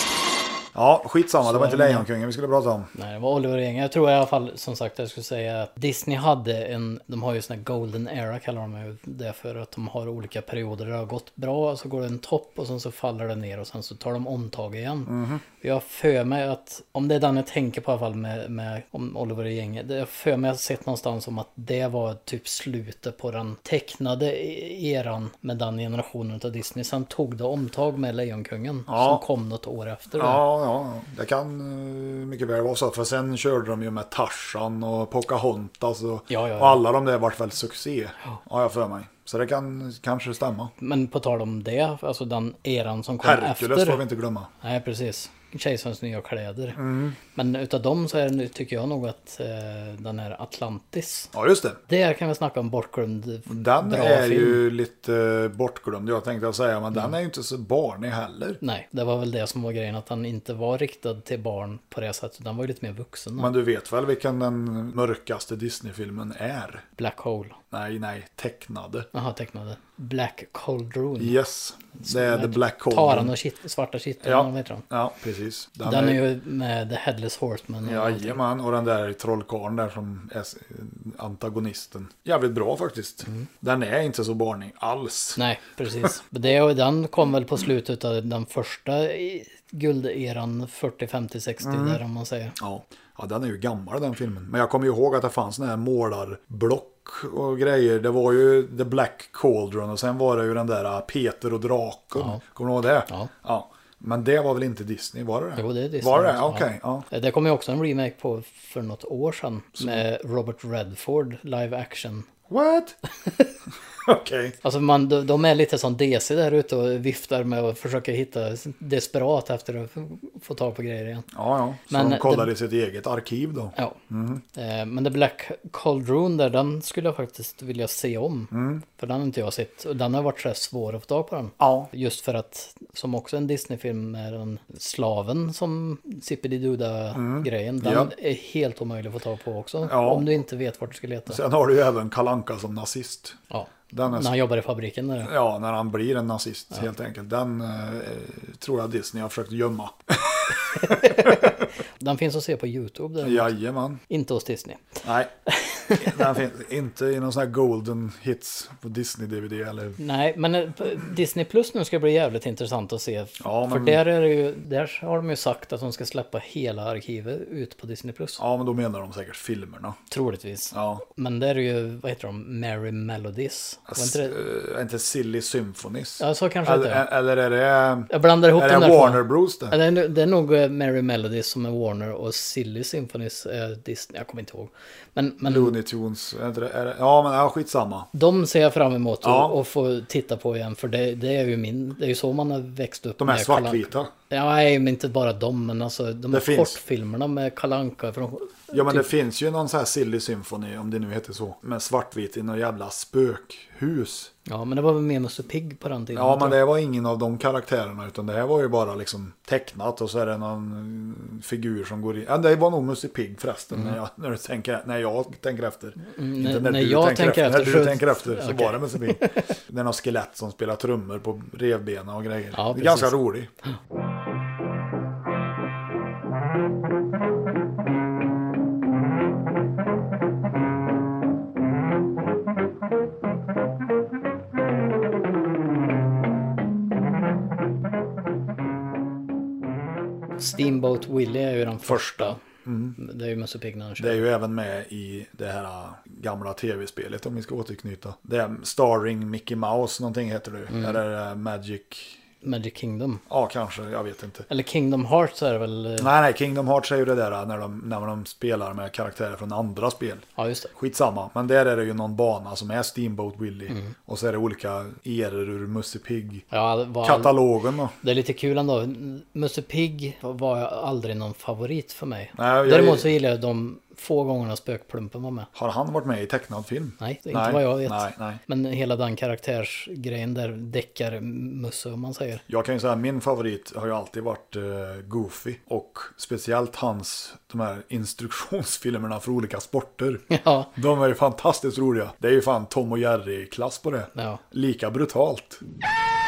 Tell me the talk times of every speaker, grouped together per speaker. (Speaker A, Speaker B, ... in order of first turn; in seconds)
Speaker A: 0.7-2.9, 15.1-15.4, 28.9-29.2, 30.2-40.7, 43.2-44.5, 46.8-47.2, 51.3-51.8, 53.5-58.6, 63.4-66.8, 67.7-69.1, 71.2-73.3, 74.2-76.2, 77.8-85.4, 91.6-92.0, 92.6-107.0, 109.8-110.0, 112.5-112.9, 114.0-114.5, 121.3-124.4, 128.5-128.8, 131.6-131.9, 137.1-138.1, 139.8-140.3, 141.3-143.4, 143.9-144.3, 145.2-151.5, 153.2-154.0, 155.0-155.3, 155.9-160.0, 163.4-164.0, 168.4-170.0, 170.7-171.0, 173.9-179.8, 185.4-188.1, 189.2-189.6, 193.2-194.1, 196.3-196.8, 198.7-204.3, 206.1-223.5, 241.8-243.0, 244.0-252.2, 253.3-254.5, 256.0-266.4, 267.0-267.9, 272.4-273.1, 275.5-278.4, 282.5-290.2, 290.8-295.6
Speaker B: 1.4-2.1, 2.9-30.4, 36.3-36.8, 40.8-44.0, 44.6-46.8, 47.3-51.3, 51.9-54.6, 58.6-63.5, 67.0-67.6, 69.1-71.3, 72.0-74.8, 75.8-78.4, 85.4-92.5, 102.1-102.4, 105.6-112.3, 114.6-121.3, 121.9-122.5, 124.5-141.4, 143.5-145.3, 150.8-151.5, 152.0-153.5, 154.1-155.0, 155.5-156.3, 160.0-168.4, 170.1-174.3, 176.2-177.1, 178.1-185.7, 188.1-199.1, 204.4-206.6, 216.0-219.3, 222.5-223.2, 240.4-242.4, 243.0-244.2, 250.7-251.0, 252.4-253.2, 254.5-256.1, 260.4-260.7, 263.7-263.9, 266.5-267.4, 268.0-275.5, 277.0-282.4, 290.3-290.7, 294.1-294.4